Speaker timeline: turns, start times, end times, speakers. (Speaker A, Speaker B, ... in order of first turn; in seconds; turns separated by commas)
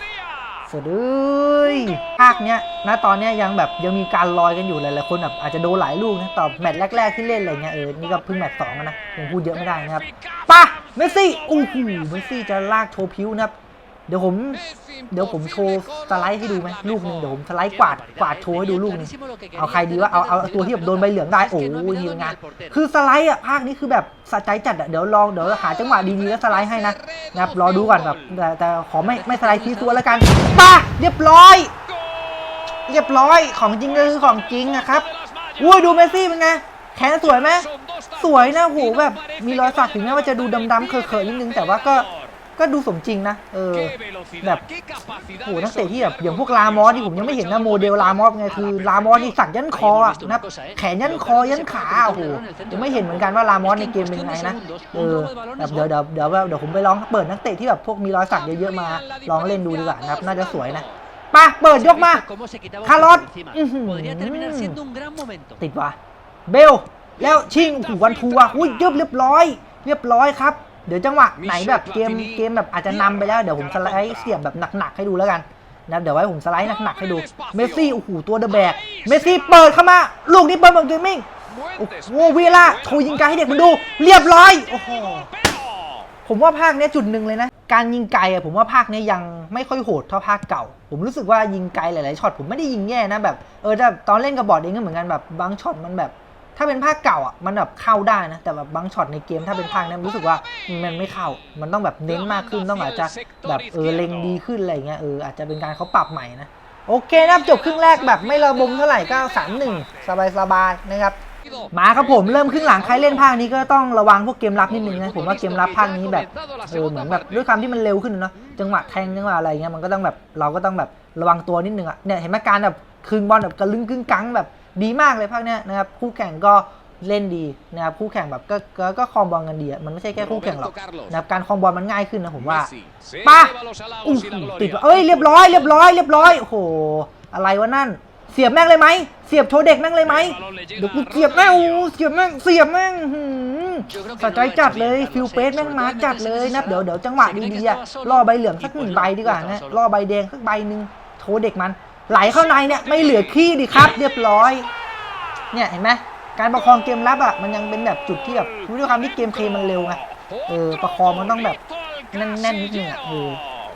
Speaker A: 0.7-13.5, Speaker A: 14.1-31.7, Speaker B: 19.0-20.4, Speaker B: 21.8-22.6, Speaker A: 32.9-35.1, Speaker A: 35.6-44.6, Speaker A: 45.4-62.2, Speaker B: 50.1-50.8, Speaker B: 51.3-52.8, Speaker B: 54.0-55.6, Speaker B: 62.2-65.5, Speaker A: 62.8-64.8, Speaker A: 65.6-66.0, Speaker A: 66.5-85.3, Speaker A: 86.3-111.2, Speaker A: 111.7-154.7, Speaker B: 143.9-146.5, Speaker B: 147.5-148.1, Speaker B: 148.8-149.5, Speaker A: 155.5-161.6, Speaker A: 162.1-163.4